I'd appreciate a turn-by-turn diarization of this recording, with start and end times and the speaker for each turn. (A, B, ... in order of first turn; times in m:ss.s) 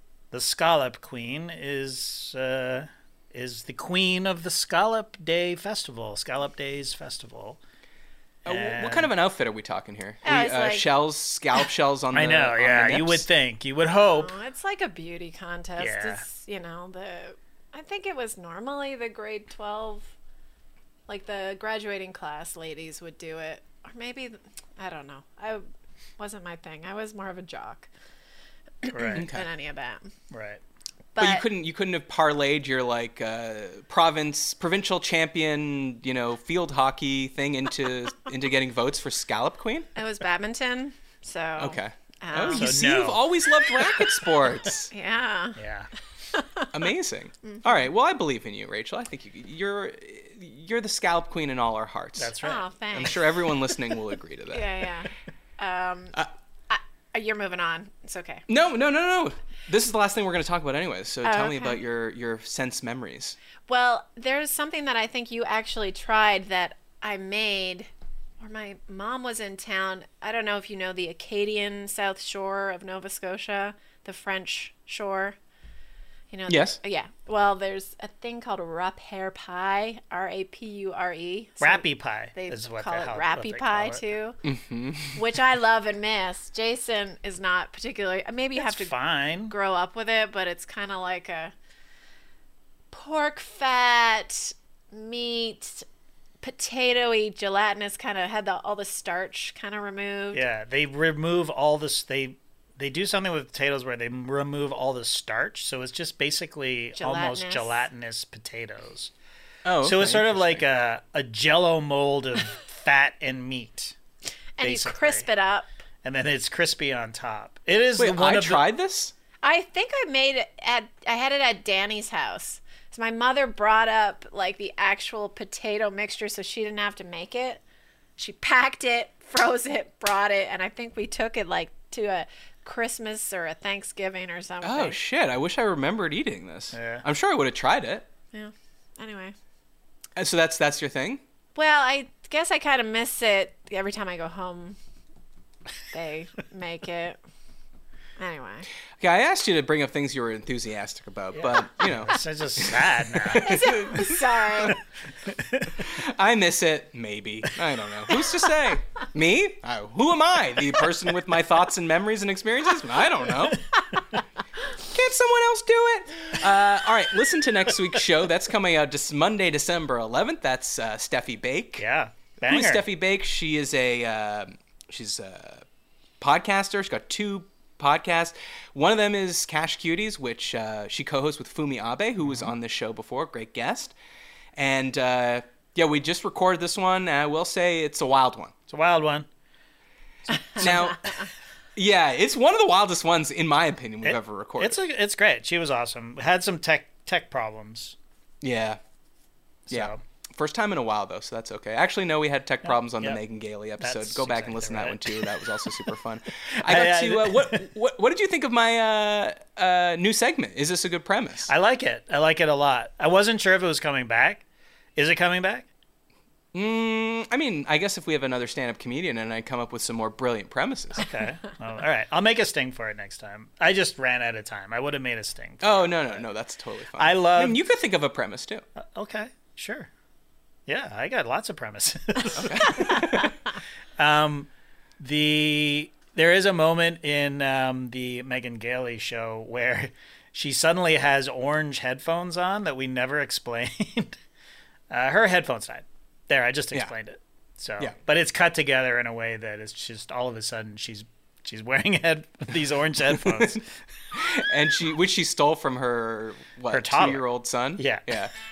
0:00.3-0:07.6 A
0:08.4-0:13.3 B
0:08.5-0:09.1 A
0:10.2-0:10.9 C
0:12.1-0:14.3 A
0:14.0-0:20.1 C
0:15.8-0:16.2 A
0:21.1-0:25.6 C
0:26.2-0:27.9 C
0:28.8-0:30.1 C
0:28.9-0:29.3 A
0:29.2-0:29.5 B
0:30.3-0:30.6 A
0:31.2-0:31.4 C
0:31.2-0:39.9 B
0:40.0-0:42.8 C
0:41.6-0:44.9 B
0:42.5-0:43.2 A
0:43.7-0:45.6 C
0:45.6-0:45.9 A
0:46.3-0:46.7 C
0:46.7-0:52.4 B
0:52.2-0:52.7 A
0:52.4-0:54.0 C
0:52.9-0:54.9 B
0:54.5-0:58.4 C
0:58.5-1:03.4 B
1:01.2-1:01.8 C
1:03.7-1:07.9 C
1:08.4-1:15.4 C
1:16.3-1:24.4 C
1:16.5-1:16.8 B
1:21.6-1:24.0 A
1:24.4-1:25.3 B
1:25.1-1:28.9 C
1:28.6-1:29.5 A
1:29.5-1:31.5 C
1:32.9-1:35.9 C
1:36.4-1:40.4 C
1:40.3-1:49.1 A
1:47.0-1:47.8 C
1:49.6-1:50.6 B
1:49.8-1:54.0 A
1:54.6-1:55.7 C
1:54.6-1:55.3 A
1:56.0-1:58.6 A
1:58.0-1:59.1 B
1:59.4-2:07.6 C
2:08.2-2:15.0 C
2:14.6-2:18.1 B
2:16.7-2:17.0 A
2:18.3-2:19.4 C
2:20.2-2:21.2 B
2:21.6-2:24.8 C
2:25.9-2:27.2 C
2:28.2-2:28.7 C
2:29.0-2:34.8 B
2:31.3-2:33.8 A
2:33.4-2:34.8 C
2:35.3-2:35.8 A
2:35.7-2:43.7 B
2:44.8-2:51.8 B
2:51.8-2:52.8 A
2:52.4-2:55.7 B
2:56.2-3:04.0 B
3:04.6-3:08.5 B
3:08.7-3:09.3 A
3:10.3-3:11.0 A
3:10.6-3:11.0 B
3:11.8-3:14.8 B
3:14.0-3:18.0 A
3:18.4-3:18.8 B
3:19.7-3:20.0 A
3:19.7-3:31.5 B
3:22.6-3:23.2 A
3:23.8-3:25.6 A
3:26.5-3:27.7 A
3:31.5-3:34.4 A
3:35.0-3:35.7 A
3:36.5-3:41.1 B
3:41.0-3:46.2 A
3:45.6-3:48.6 B
3:47.0-3:47.6 A
3:48.8-3:49.9 A
3:50.7-3:53.0 A
3:52.3-3:53.4 B
3:54.0-4:04.2 A
4:04.9-4:13.6 A
4:13.1-4:13.6 B
4:14.1-4:18.3 B
4:16.7-4:17.2 A
4:17.8-4:18.2 A